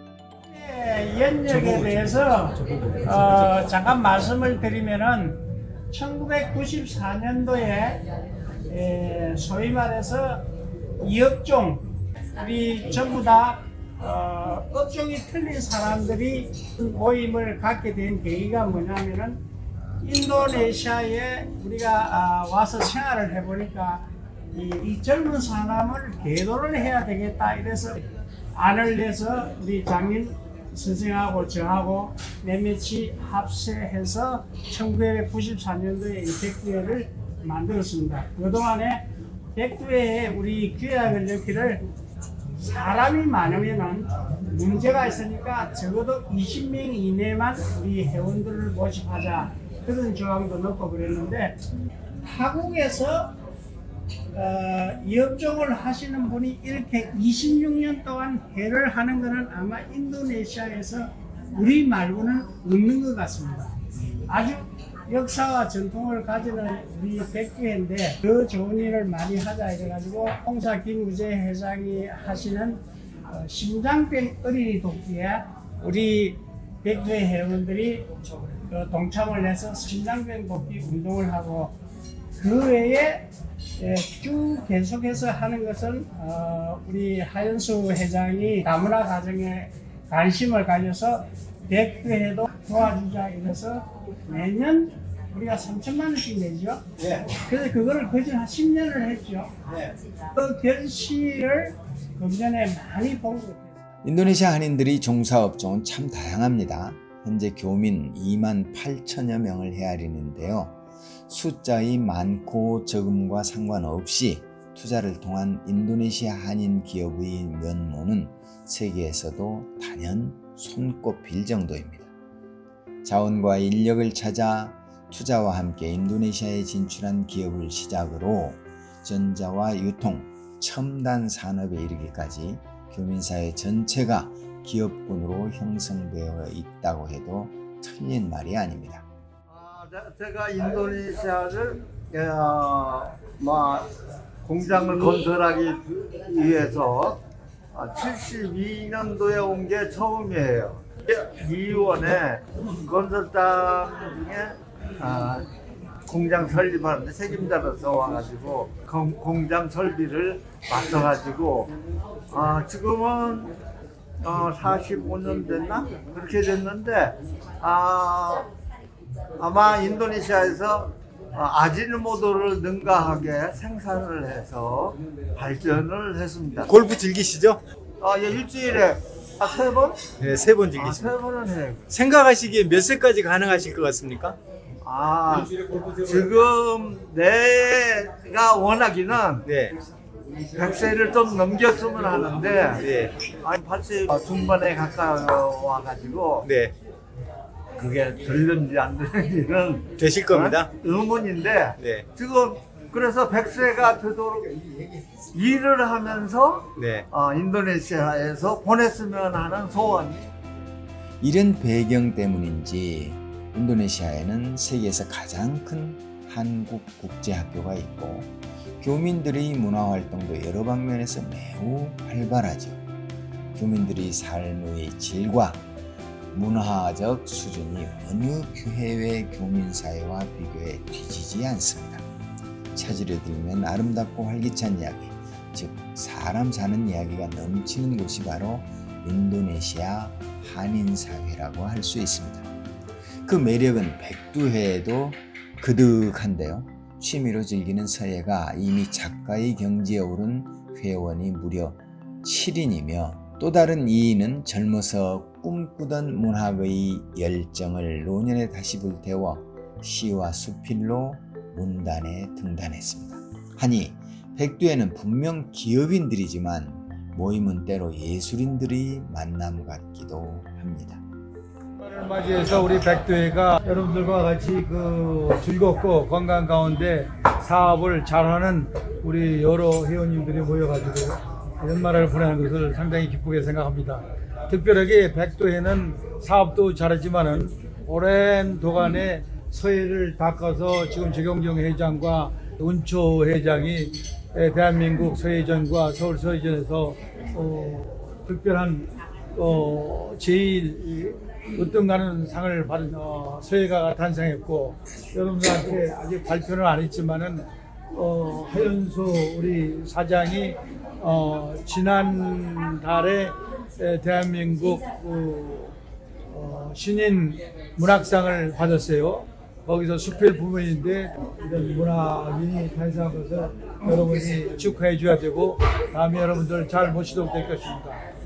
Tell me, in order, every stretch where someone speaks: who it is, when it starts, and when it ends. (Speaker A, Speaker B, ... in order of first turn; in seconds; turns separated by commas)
Speaker A: 0.5-8.0, Speaker A: 8.7-10.4, Speaker A: 11.0-19.4, Speaker A: 20.0-41.8, Speaker A: 42.6-51.6, Speaker A: 52.2-53.3, Speaker A: 54.3-63.7, Speaker A: 64.3-78.0, Speaker A: 78.6-81.8, Speaker A: 82.3-99.5, Speaker A: 100.3-103.7, Speaker B: 104.0-122.1, Speaker B: 123.0-139.0, Speaker C: 139.5-143.9, Speaker C: 144.4-147.2, Speaker C: 147.7-155.5, Speaker C: 156.1-161.7, Speaker C: 162.3-163.5, Speaker C: 164.2-168.5, Speaker C: 169.4-176.7, Speaker D: 176.7-177.6, Speaker C: 178.0-180.1, Speaker D: 180.2-181.1, Speaker C: 180.7-181.8, Speaker D: 181.9-184.4, Speaker C: 184.8-189.4, Speaker D: 189.4-189.7, Speaker C: 190.6-196.5, Speaker D: 192.8-193.2, Speaker D: 196.4-196.7, Speaker C: 197.8-204.6, Speaker D: 200.0-200.7, Speaker D: 201.8-202.1, Speaker C: 205.3-210.3, Speaker D: 206.8-207.0, Speaker B: 211.2-222.8, Speaker B: 223.6-225.6, Speaker B: 226.3-232.0, Speaker B: 232.7-242.5, Speaker B: 243.2-271.0, Speaker E: 271.8-315.8, Speaker E: 316.3-328.0